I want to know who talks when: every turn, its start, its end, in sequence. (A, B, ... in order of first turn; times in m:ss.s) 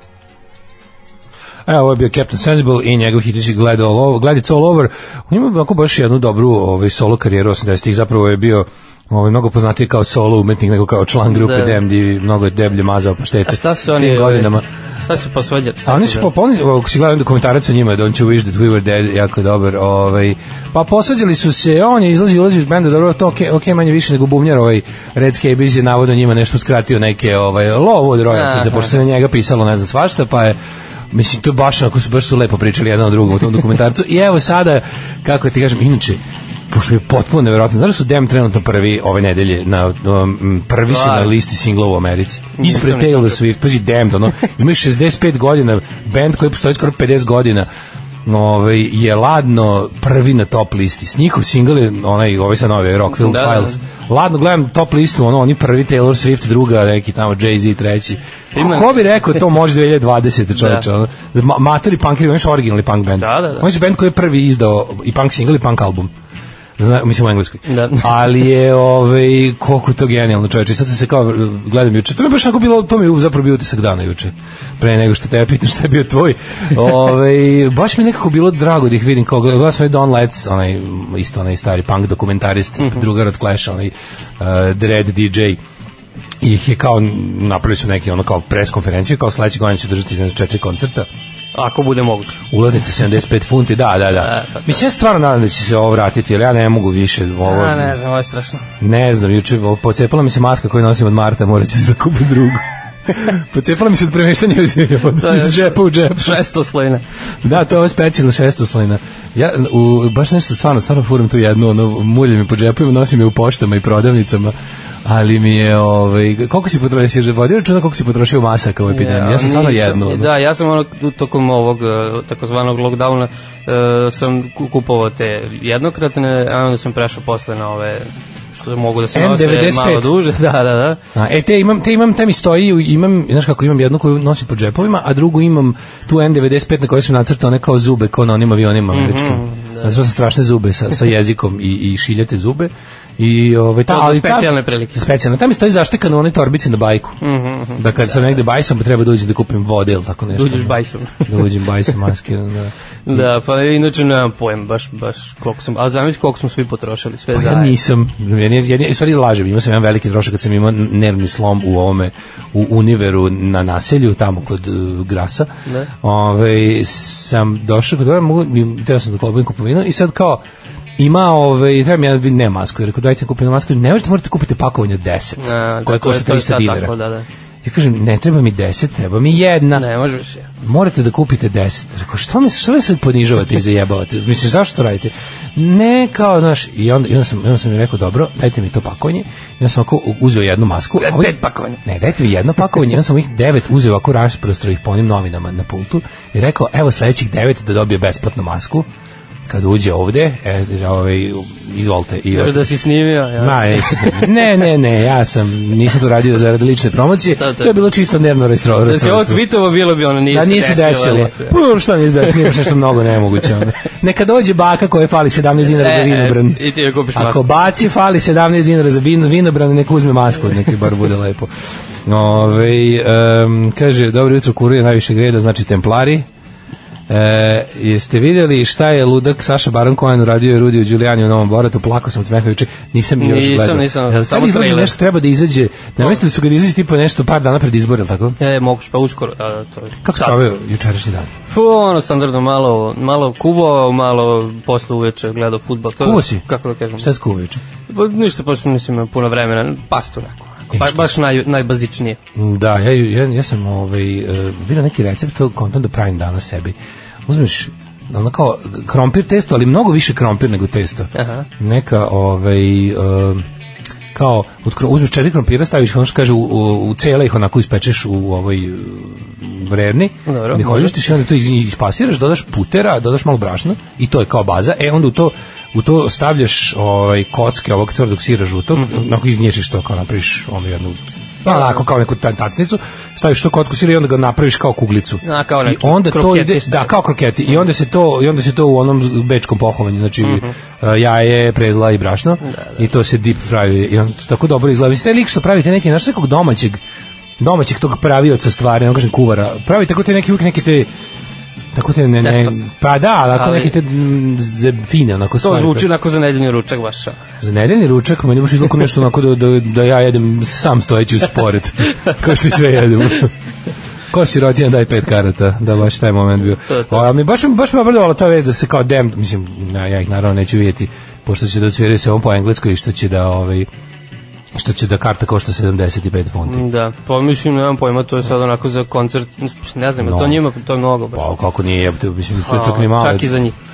0:01.7-0:14.7 A
0:11.3-0:11.8 B
0:13.5-0:16.3 B
0:15.9-0:30.6 A
0:28.3-0:28.9 B
0:31.1-0:47.7 A
0:40.9-0:41.3 B
0:42.5-0:43.4 B
0:48.2-1:06.1 A
0:53.2-0:53.8 B
0:58.6-0:59.0 B
1:00.6-1:00.8 B
1:03.2-1:03.7 B
1:06.8-1:25.6 A
1:07.7-1:08.1 B
1:26.4-1:31.1 A
1:31.6-1:32.4 B
1:32.5-1:38.0 A
1:34.2-1:34.8 B
1:37.4-1:38.6 B
1:38.8-1:46.4 A
1:45.2-1:47.0 B
1:47.4-1:54.5 A
1:55.0-2:00.3 A
1:58.9-2:11.0 B
2:09.1-2:10.1 A
2:11.2-2:27.2 A
2:18.9-2:20.0 B
2:23.9-2:25.0 B
2:27.2-2:28.4 B
2:27.8-2:33.3 A
2:30.3-2:31.5 B
2:33.1-2:37.8 B
2:37.3-2:45.5 A
2:46.0-2:50.4 A
2:51.0-2:56.9 A
2:55.4-2:57.3 B
2:57.6-2:59.9 A
2:59.8-3:00.5 B
3:00.6-3:18.9 A
3:11.0-3:11.8 B
3:19.5-3:22.7 A
3:22.3-3:24.4 B
3:23.4-3:29.4 A
3:27.4-3:27.7 B
3:28.8-3:31.6 B
3:30.3-3:36.6 A
3:32.3-3:32.6 B
3:35.7-3:37.6 B
3:37.2-3:41.5 A
3:42.1-3:46.3 A
3:47.1-3:58.4 A
3:53.2-3:54.9 B
3:58.4-4:00.4 B
4:00.0-4:01.3 A
4:01.5-4:07.1 B
4:06.0-4:06.4 A
4:07.0-4:07.6 A
4:07.9-4:12.2 B
4:10.7-4:11.1 A
4:12.4-4:23.4 A
4:21.1-4:21.5 B
4:24.1-4:56.8 A
4:30.3-4:31.0 B
4:38.8-4:39.0 B
4:41.5-4:41.7 B
4:45.2-4:46.9 B
4:50.2-4:50.5 B
4:52.4-4:52.8 B
4:57.4-5:00.9 A
5:01.7-5:05.9 A
5:02.2-5:02.7 B
5:03.3-5:03.8 B
5:05.4-5:07.2 B
5:07.4-5:13.3 A
5:14.1-5:23.7 A
5:16.7-5:17.0 B
5:24.5-5:26.6 A
5:26.5-5:31.2 B
5:30.0-5:30.4 A
5:31.1-5:33.3 A
5:32.4-5:33.6 B